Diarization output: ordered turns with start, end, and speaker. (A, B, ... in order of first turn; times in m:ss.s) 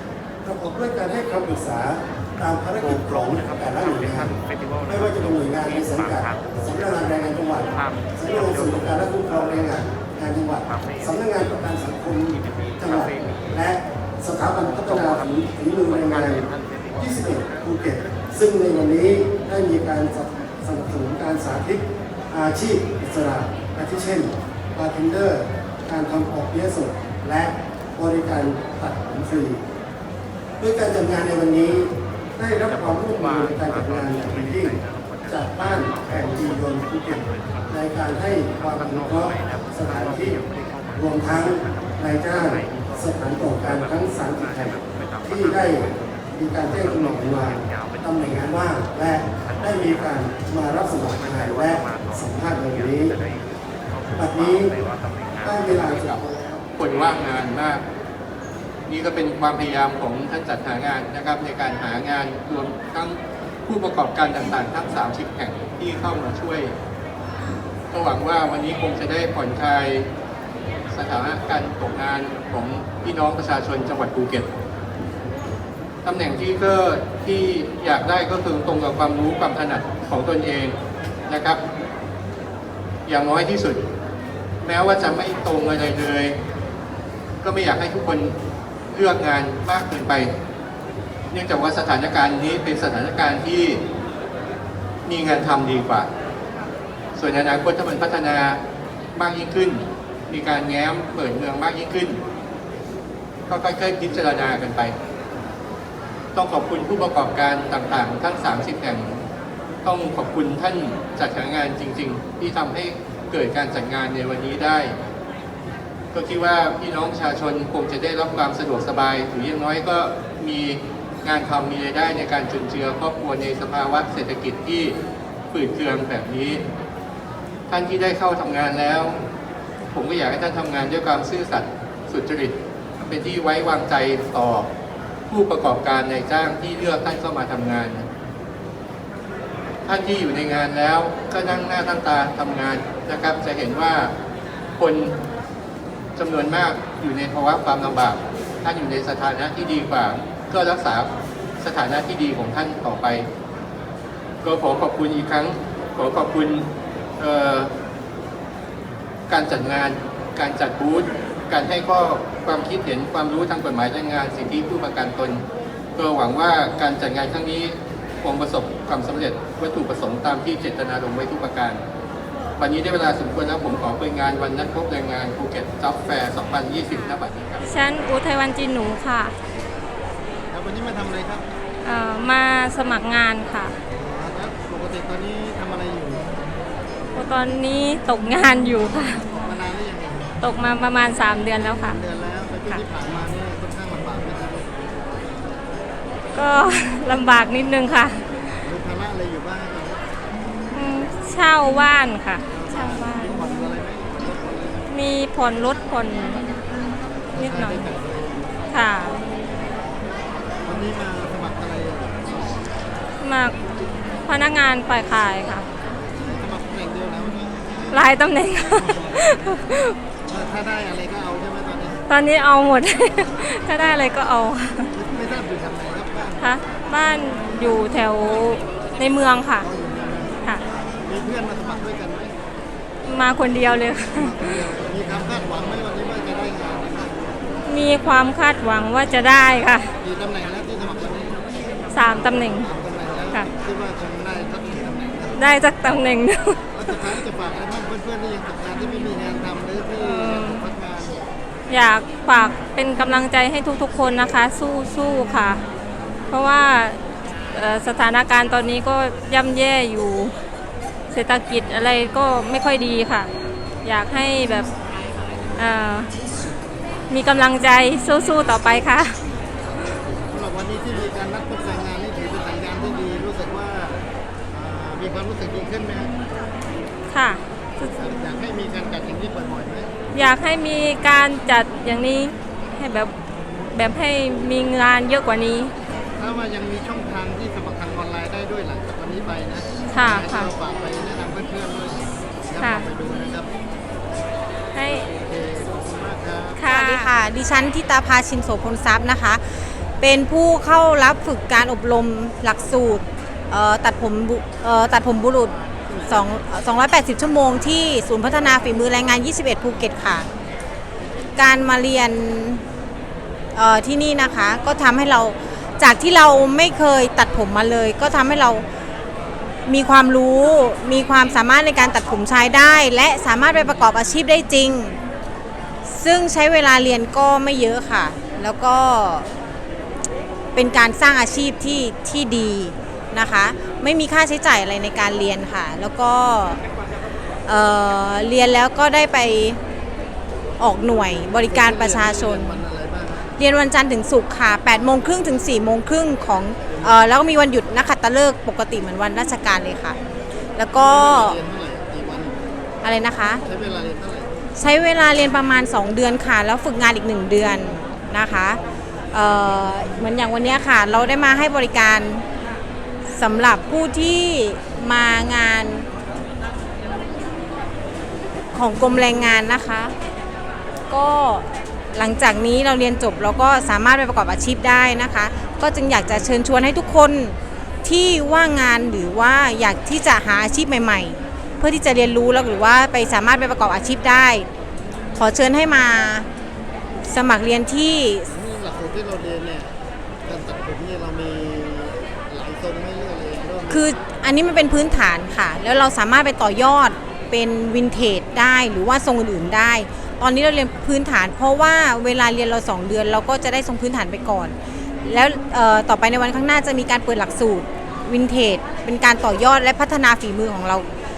0:00.4-0:29.6 A
0:30.6-0:40.4 A
0:40.9-0:53.2 A
0:54.1-0:54.7 A
0:55.4-0:56.6 A
0:55.8-0:56.2 B
0:56.8-0:57.8 B
0:58.9-1:06.8 B
1:07.9-1:10.1 B
1:10.9-1:14.5 B
1:16.0-1:20.8 B
1:21.3-1:21.6 B
1:23.1-1:23.8 B
1:24.6-1:26.4 B
1:27.4-1:28.4 B
1:28.9-1:30.3 B
1:31.3-1:33.8 B
1:35.1-1:36.1 B
1:37.2-1:38.6 B
1:39.1-1:42.2 B
1:43.5-1:45.0 B
1:46.3-1:49.2 B
1:49.8-1:55.0 B
1:56.1-2:05.0 B
2:05.5-2:06.6 B
2:07.7-2:09.2 B
2:09.9-2:14.7 B
2:15.3-2:18.1 B
2:19.9-2:24.1 B
2:24.8-2:25.2 B
2:26.2-2:33.3 B
2:34.4-2:36.7 B
2:37.2-2:37.7 B
2:39.3-2:45.4 B
2:46.0-2:51.8 B
2:52.6-2:57.7 B
2:57.6-2:59.4 C
3:00.5-3:01.5 D
3:01.8-3:03.8 C
3:03.9-3:06.3 D
3:07.1-3:09.2 C
3:09.4-3:10.3 D
3:10.4-3:12.0 C
3:11.6-3:14.7 D
3:16.3-3:18.2 C
3:18.6-3:20.0 D
3:20.7-3:23.3 C
3:22.5-3:24.9 D
3:24.9-3:26.4 C
3:27.3-3:28.7 D
3:27.4-3:27.8 C
3:28.7-3:29.2 C
3:29.5-3:29.9 D
3:30.6-3:32.6 D
3:33.2-3:33.6 C
3:34.3-3:35.7 C
3:35.8-3:38.0 D
3:37.9-3:40.0 C
3:38.8-3:39.2 D
3:40.3-3:42.0 D
3:42.1-3:44.9 C
3:44.9-3:46.6 D
3:46.4-3:49.7 C
3:49.6-3:52.4 D
3:53.0-3:54.7 C
3:54.1-3:57.4 D
3:57.7-3:59.9 C
4:00.0-4:01.4 D
4:01.9-4:02.7 C
4:02.0-4:05.5 D
4:05.4-4:06.8 C
4:06.7-4:11.2 D
4:10.0-4:10.7 C
4:11.7-4:15.6 C
4:16.3-4:17.0 C
4:17.5-4:20.3 C
4:21.1-4:23.3 C
4:23.8-4:24.7 C
4:25.6-4:26.1 C
4:27.1-4:29.2 C
4:30.1-4:36.1 D
4:37.1-4:37.9 C
4:38.0-4:39.9 D
4:40.1-4:43.1 C
4:43.7-4:45.7 C
4:46.2-4:53.5 D
4:49.9-4:50.5 C
4:52.6-4:52.9 C
4:54.7-4:55.1 C
4:55.0-4:56.6 D
4:56.6-4:57.1 C
4:56.6-5:10.3 E
5:11.4-5:12.6 E
5:13.6-5:18.6 E
5:19.7-5:25.0 E
5:25.9-5:29.3 E
5:30.5-5:36.6 E
5:37.5-5:39.6 E
5:40.6-5:42.6 E
5:41.4-5:43.4 D
5:43.4-5:50.0 E
5:46.7-5:47.0 D
5:50.6-5:51.4 E
5:50.8-5:52.5 D
5:52.8-5:53.4 E
5:53.4-5:54.5 D
5:54.6-5:58.6 E
5:59.1-6:02.2 E
6:03.1-6:05.9 E
6:08.5-6:09.9 E
6:10.9-6:24.5 E
6:25.2-6:26.3 E
6:27.1-6:28.3 E
6:28.3-6:29.7 D
6:30.2-6:33.9 D
6:33.7-6:50.9 E